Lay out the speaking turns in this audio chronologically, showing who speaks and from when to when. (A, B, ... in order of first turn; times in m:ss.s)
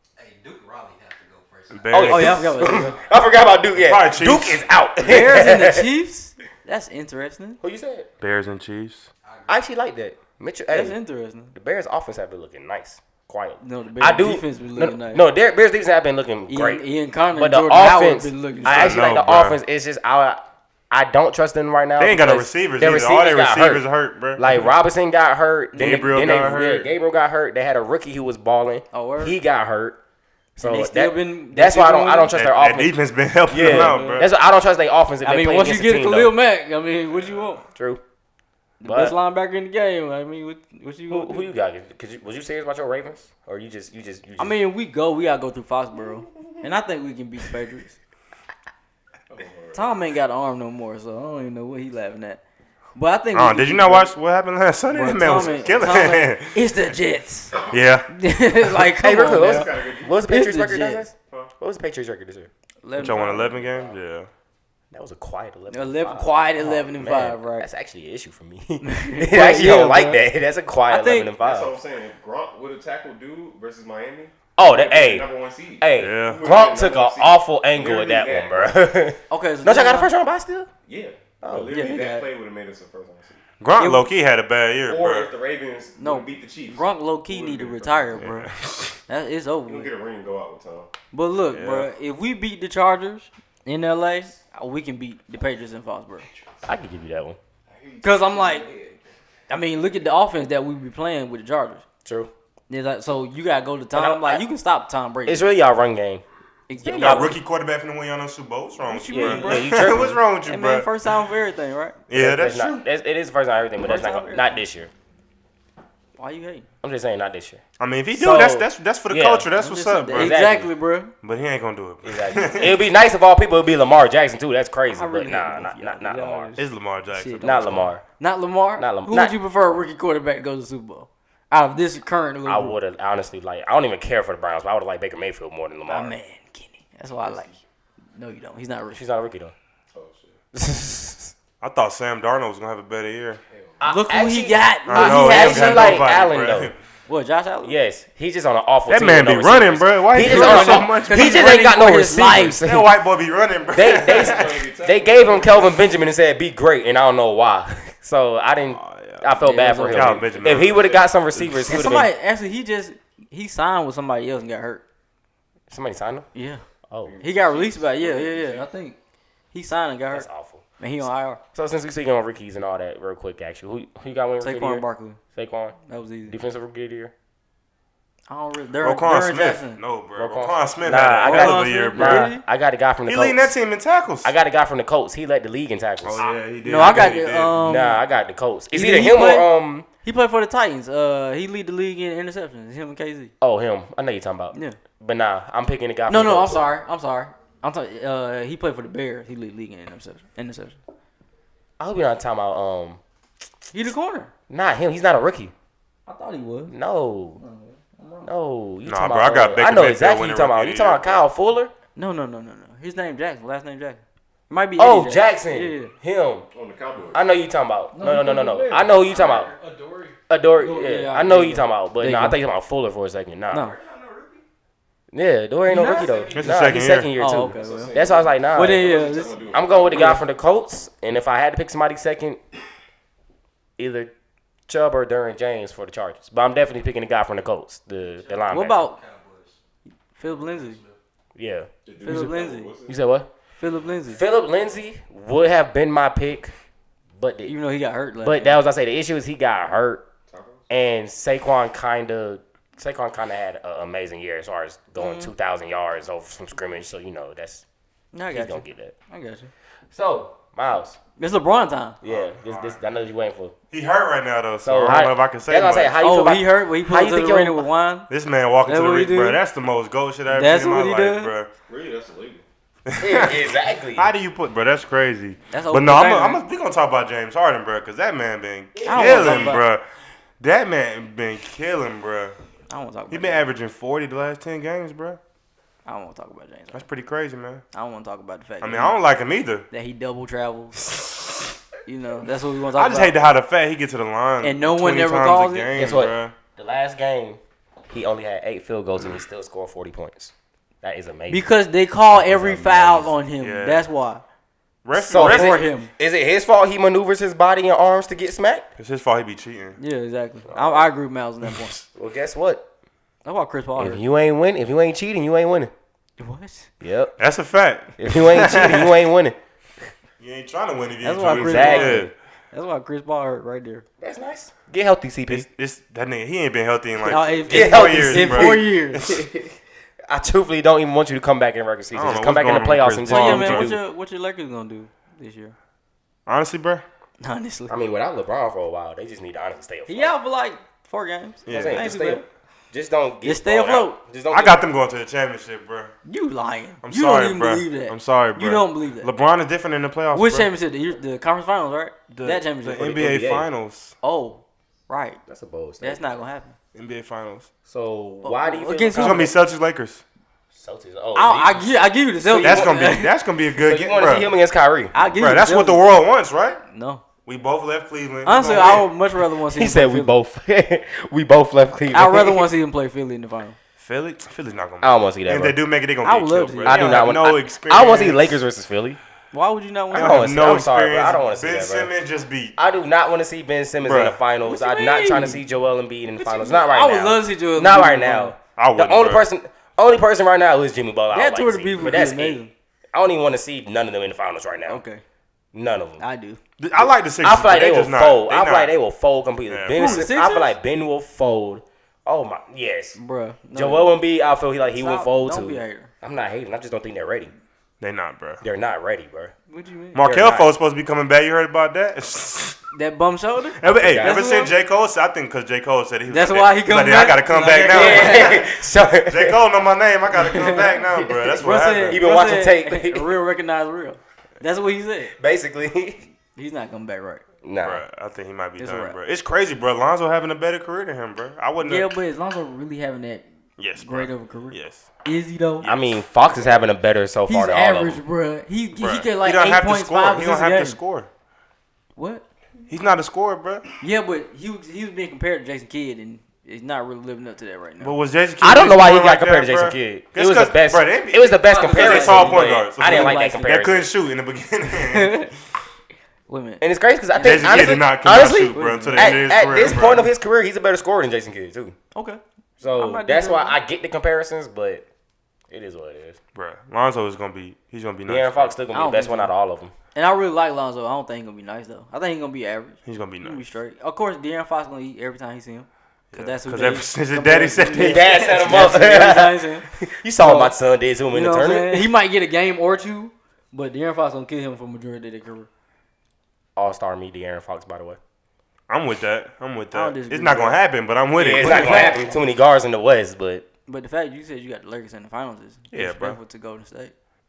0:00.2-0:03.2 A
0:01.7-0:02.5 B
0:01.9-0:05.9 C
0:02.0-0:02.9 D
0:03.8-0:04.7 B
0:05.0-0:07.6 D
0:07.6-0:08.1 C
0:08.2-0:09.1 B
0:09.2-0:09.6 A
0:09.5-0:11.0 C
0:10.7-0:11.5 D
0:11.5-0:23.8 C
0:13.6-0:15.2 D
0:16.5-0:19.0 D
0:18.6-0:19.6 B
0:22.0-0:24.6 B
0:24.4-0:30.0 C
0:25.7-0:26.1 D
0:25.8-0:26.9 B
0:28.9-0:29.4 D
0:30.6-0:33.0 C
0:30.6-0:32.3 D
0:32.3-0:34.3 B
0:33.5-0:36.4 C
0:33.6-0:34.2 D
0:35.2-0:37.6 D
0:37.8-0:38.0 C
0:38.8-0:41.5 D
0:38.8-0:39.2 C
0:41.1-0:44.6 C
0:44.4-0:48.0 D
0:49.3-0:49.9 E
0:49.7-0:52.4 D
0:53.0-0:54.1 D
0:53.3-0:56.6 B
0:54.9-0:57.6 D
0:55.2-0:56.1 E
0:57.7-0:58.1 B
0:58.1-0:59.7 D
0:59.0-1:02.5 C
0:59.2-1:00.2 E
1:00.3-1:01.1 D
1:01.3-1:01.5 E
1:02.8-1:03.7 D
1:03.0-1:04.3 B
1:03.2-1:04.0 E
1:04.9-1:11.8 C
1:05.7-1:07.7 D
1:08.8-1:10.2 D
1:10.9-1:11.3 D
1:11.4-1:18.8 E
1:14.6-1:15.3 C
1:15.8-1:20.7 C
1:16.0-1:16.4 B
1:19.3-1:20.1 D
1:20.9-1:23.4 E
1:21.4-1:22.0 C
1:21.7-1:22.3 D
1:23.6-1:25.3 B
1:23.8-1:24.1 D
1:24.9-1:28.2 E
1:26.0-1:28.5 D
1:28.2-1:29.0 B
1:29.1-1:29.9 D
1:29.7-1:30.9 E
1:31.1-1:36.3 D
1:31.5-1:31.9 B
1:36.7-1:37.4 C
1:37.7-1:39.1 E
1:38.0-1:38.7 D
1:39.5-1:41.8 D
1:42.0-1:42.3 C
1:42.7-1:45.5 D
1:43.9-1:44.4 C
1:45.3-1:46.2 C
1:46.7-1:47.4 D
1:46.8-1:47.4 C
1:46.9-1:50.9 B
1:48.8-1:52.0 D
1:49.1-1:50.2 C
1:52.1-1:52.8 B
1:52.1-1:54.9 C
1:53.8-1:54.6 D
1:56.2-1:56.7 D
1:56.8-1:57.6 C
1:57.8-2:00.4 B
1:58.1-1:59.5 C
1:59.6-2:01.1 D
2:00.1-2:00.7 C
2:01.2-2:02.8 B
2:02.0-2:06.5 C
2:04.9-2:12.8 D
2:06.6-2:07.9 B
2:07.4-2:08.0 C
2:08.8-2:09.4 C
2:12.4-2:16.2 C
2:15.9-2:17.5 D
2:18.2-2:19.0 D
2:18.9-2:19.5 C
2:19.9-2:20.4 E
2:20.5-2:21.3 C
2:21.6-2:23.4 B
2:23.8-2:26.7 C
2:23.9-2:26.1 D
2:24.9-2:26.8 B
2:27.1-2:27.8 D
2:27.6-2:32.9 C
2:28.9-2:31.6 B
2:30.2-2:32.6 D
2:32.4-2:34.6 B
2:33.7-2:42.1 C
2:33.9-2:35.9 E
2:38.7-2:39.3 B
2:39.4-2:40.2 D
2:39.9-2:41.6 B
2:40.3-2:41.1 E
2:41.7-2:44.8 D
2:45.7-2:46.3 C
2:46.3-2:46.6 D
2:46.9-2:47.2 C
2:47.0-2:48.7 E
2:47.2-2:49.0 D
2:49.5-2:50.3 D
2:50.1-2:50.6 C
2:50.8-2:51.4 D
2:51.5-2:54.8 C
2:54.4-2:55.2 D
2:55.4-2:55.8 C
2:55.9-2:56.4 D
2:56.3-2:57.1 C
2:58.3-2:59.8 D
2:58.8-3:02.3 B
3:00.2-3:03.5 C
3:01.2-3:02.4 D
3:03.1-3:04.3 B
3:04.2-3:07.1 C
3:06.0-3:07.6 B
3:06.6-3:08.0 D
3:07.6-3:09.9 C
3:08.7-3:09.5 D
3:10.0-3:13.3 D
3:13.4-3:16.7 C
3:16.1-3:20.8 D
3:21.8-3:23.0 C
3:23.7-3:24.3 D
3:24.5-3:25.5 C
3:26.1-3:26.7 D
3:26.7-3:27.4 C
3:27.4-3:28.3 D
3:28.2-3:31.7 C
3:28.9-3:31.2 B
3:32.0-3:35.9 D
3:34.8-3:36.4 C
3:36.5-3:37.2 E
3:37.1-3:39.5 C
3:37.9-3:38.9 D
3:38.7-3:40.2 A
3:40.3-3:43.7 C
3:40.6-3:42.4 D
3:43.5-3:44.4 A
3:45.1-3:48.9 C
3:45.7-3:46.3 D
3:45.8-3:46.6 A
3:46.4-3:47.1 B
3:47.2-3:47.9 D
3:47.5-3:50.2 E
3:48.5-3:50.2 D
3:48.8-3:49.5 A
3:49.5-3:52.4 C
3:53.8-3:54.1 C
3:54.7-3:58.9 C
3:58.1-3:59.6 A
3:58.5-3:59.0 D
4:00.2-4:00.8 D
4:00.2-4:01.0 A
4:01.4-4:01.7 C
4:01.9-4:03.0 E
4:02.0-4:02.7 D
4:02.9-4:03.3 C
4:03.6-4:04.2 D
4:04.1-4:06.5 C
4:07.2-4:07.5 C
4:07.5-4:08.6 D
4:08.2-4:10.1 C
4:10.3-4:10.7 E
4:10.7-4:17.6 C
4:15.0-4:15.3 D
4:18.1-4:19.5 D
4:18.3-4:18.9 C
4:19.9-4:21.0 C
4:21.2-4:22.0 D
4:22.0-4:23.6 C
4:22.1-4:22.8 B
4:23.7-4:25.9 B
4:24.6-4:27.7 C
4:26.0-4:28.1 D
4:28.1-4:31.5 B
4:28.7-4:29.4 D
4:30.3-4:31.3 D
4:31.7-4:32.4 E
4:32.9-4:39.8 B
4:33.0-4:34.1 C
4:35.5-4:36.4 D
4:38.8-4:39.6 C
4:38.8-4:39.6 D
4:40.4-4:42.4 B
4:42.7-4:43.5 D
4:43.1-4:45.2 B
4:45.9-4:46.8 D
4:46.7-4:47.6 B
4:47.7-4:49.0 D
4:48.6-4:49.7 B
4:49.7-4:50.8 D
4:50.9-4:51.3 B
4:51.9-4:53.1 D
4:52.8-4:56.3 B
4:54.4-4:55.7 D
4:55.8-5:01.5 C
5:01.3-5:04.2 D
5:02.1-5:03.1 C
5:03.4-5:03.8 B
5:04.8-5:05.6 B
5:05.0-5:08.7 C
5:05.1-5:05.9 D
5:08.8-5:09.8 B
5:09.8-5:11.8 D
5:10.5-5:10.8 C
5:11.9-5:12.7 C
5:13.2-5:14.0 D
5:13.8-5:15.7 C
5:16.2-5:16.7 D
5:16.8-5:17.1 C
5:17.2-5:19.0 B
5:18.0-5:19.4 C
5:20.2-5:22.1 B
5:21.0-5:23.8 D
5:21.3-5:22.1 C
5:24.0-5:25.5 C
5:25.3-5:29.2 B
5:27.0-5:29.0 D
5:27.5-5:29.6 C
5:30.1-5:33.8 C
5:31.9-5:33.8 B
5:33.1-5:35.6 D
5:36.3-5:36.8 B
5:37.2-5:37.8 D
5:37.7-5:40.1 C
5:39.9-5:42.2 D
5:41.5-5:42.0 B
5:41.5-5:44.6 C
5:43.2-5:44.0 D
5:44.3-5:45.9 B
5:46.1-5:49.1 D
5:46.8-5:50.5 B
5:50.1-5:53.0 D
5:52.1-5:53.9 B
5:52.8-5:53.5 C
5:54.0-5:55.2 D
5:55.3-5:56.0 C
5:55.8-5:56.6 D
5:56.8-5:57.5 B
5:57.7-5:59.3 C
5:58.2-5:59.3 D
5:59.0-6:00.0 B
6:00.5-6:02.8 C
6:01.2-6:03.2 D
6:02.4-6:04.3 B
6:03.6-6:04.9 C
6:04.9-6:05.8 D
6:05.1-6:06.6 B
6:06.7-6:07.0 D
6:07.3-6:08.9 B
6:08.2-6:10.1 D
6:09.5-6:12.5 C
6:11.9-6:13.6 D
6:13.8-6:18.4 B
6:14.8-6:15.6 C
6:16.0-6:17.0 D
6:16.7-6:19.0 C
6:19.3-6:20.3 D
6:19.9-6:21.9 C
6:19.9-6:22.6 B
6:22.6-6:34.8 C
6:23.8-6:24.2 B
6:24.4-6:25.4 D
6:26.2-6:28.3 D
6:28.6-6:29.3 B
6:31.1-6:32.5 D
6:34.7-6:35.0 D
6:35.5-6:36.0 C
6:36.0-6:36.4 D
6:36.6-6:38.7 B
6:36.8-6:43.0 C
6:39.5-6:40.1 B
6:39.7-6:40.5 D
6:43.0-6:44.0 D
6:43.5-6:47.3 C
6:44.8-6:45.9 D
6:47.8-6:48.4 B
6:48.4-6:49.3 C
6:49.5-6:50.0 D
6:50.0-6:52.6 B
6:50.0-6:50.5 C
6:52.7-6:54.5 D
6:53.6-6:58.4 B
6:53.7-6:54.2 C
6:56.1-6:58.4 D
6:57.7-6:59.4 C
6:59.0-7:02.0 B
7:00.2-7:00.7 D
7:00.8-7:03.1 C
7:01.4-7:05.1 D
7:05.2-7:06.0 C
7:06.4-7:07.2 D
7:07.4-7:07.8 C
7:07.6-7:11.9 B
7:08.6-7:09.0 D
7:11.6-7:13.3 D
7:13.6-7:14.9 B
7:13.8-7:15.7 D
7:15.6-7:16.0 B
7:15.6-7:18.0 C
7:17.3-7:20.8 D
7:18.8-7:21.1 B
7:22.0-7:22.2 D
7:22.7-7:23.6 B
7:23.8-7:28.0 D
7:27.8-7:35.3 B
7:28.4-7:33.9 C
7:31.4-7:33.6 D
7:34.8-7:35.3 D
7:36.3-7:36.6 D
7:36.6-7:41.8 C
7:37.1-7:37.9 D
7:37.2-7:40.1 B
7:38.5-7:39.6 D
7:42.0-7:42.2 D
7:42.6-7:44.8 C
7:42.8-7:43.6 D
7:45.5-7:46.2 C
7:46.4-7:48.5 B
7:48.1-7:49.7 C
7:48.7-7:49.3 D
7:49.9-7:59.7 D
7:52.8-7:53.4 B
7:56.1-7:58.7 B
7:57.7-8:01.9 C
8:00.2-8:00.5 D
8:01.1-8:05.5 D
8:06.6-8:08.0 C
8:08.7-8:11.9 B
8:09.7-8:10.6 D
8:11.2-8:13.5 C
8:11.4-8:12.0 D
8:13.7-8:16.9 D
8:15.7-8:16.2 B